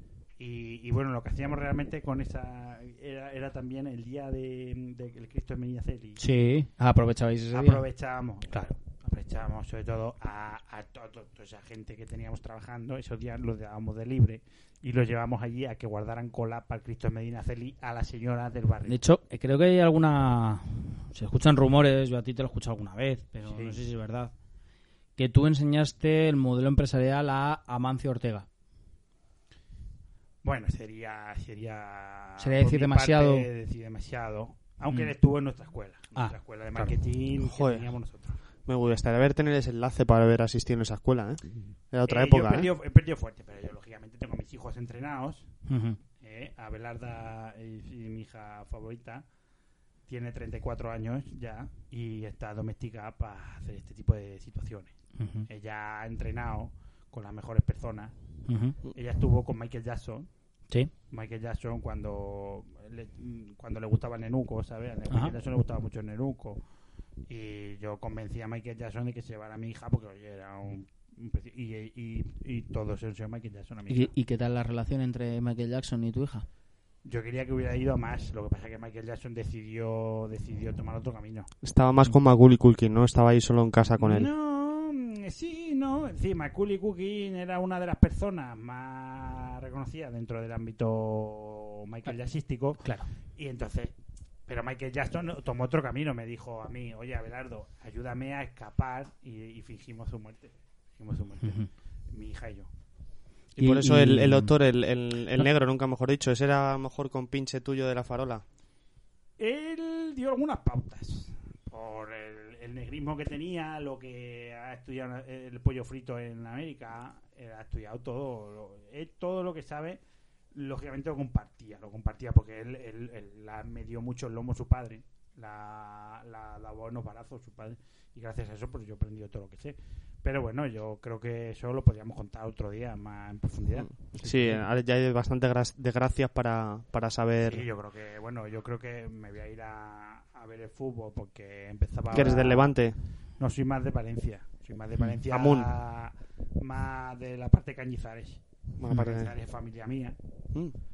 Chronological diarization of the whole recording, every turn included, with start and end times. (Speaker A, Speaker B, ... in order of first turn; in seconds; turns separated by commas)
Speaker A: 0.4-6.2, Speaker B: 6.2-7.8, Speaker A: 7.5-19.0, Speaker B: 18.9-24.3, Speaker A: 23.4-23.8, Speaker B: 25.2-28.5, Speaker A: 30.4-38.4, Speaker B: 32.4-33.5, Speaker B: 36.1-36.9, Speaker C: 37.4-37.9, Speaker C: 38.7-42.7, Speaker A: 42.1-45.5, Speaker B: 45.7-46.0, Speaker A: 46.2-49.2, Speaker A: 50.1-54.9, Speaker B: 55.2-55.5, Speaker A: 55.5-58.1, Speaker B: 58.5-58.8, Speaker A: 58.9-60.3, Speaker A: 61.1-66.6, Speaker B: 65.1-65.3, Speaker A: 67.3-74.1, Speaker B: 73.9-76.5, Speaker A: 77.0-81.5, Speaker C: 81.6-84.3, Speaker A: 84.0-92.8, Speaker B: 92.8-93.1, Speaker A: 93.4-93.9, Speaker A: 94.5-102.7, Speaker B: 101.4-101.7, Speaker B: 103.6-104.5, Speaker C: 103.6-108.4, Speaker A: 109.4-120.0, Speaker A: 120.5-133.9, Speaker C: 134.2-137.7, Speaker B: 134.2-134.6, Speaker A: 137.4-142.8, Speaker C: 142.1-143.0, Speaker A: 143.4-150.2, Speaker C: 145.3-145.7, Speaker C: 148.8-149.3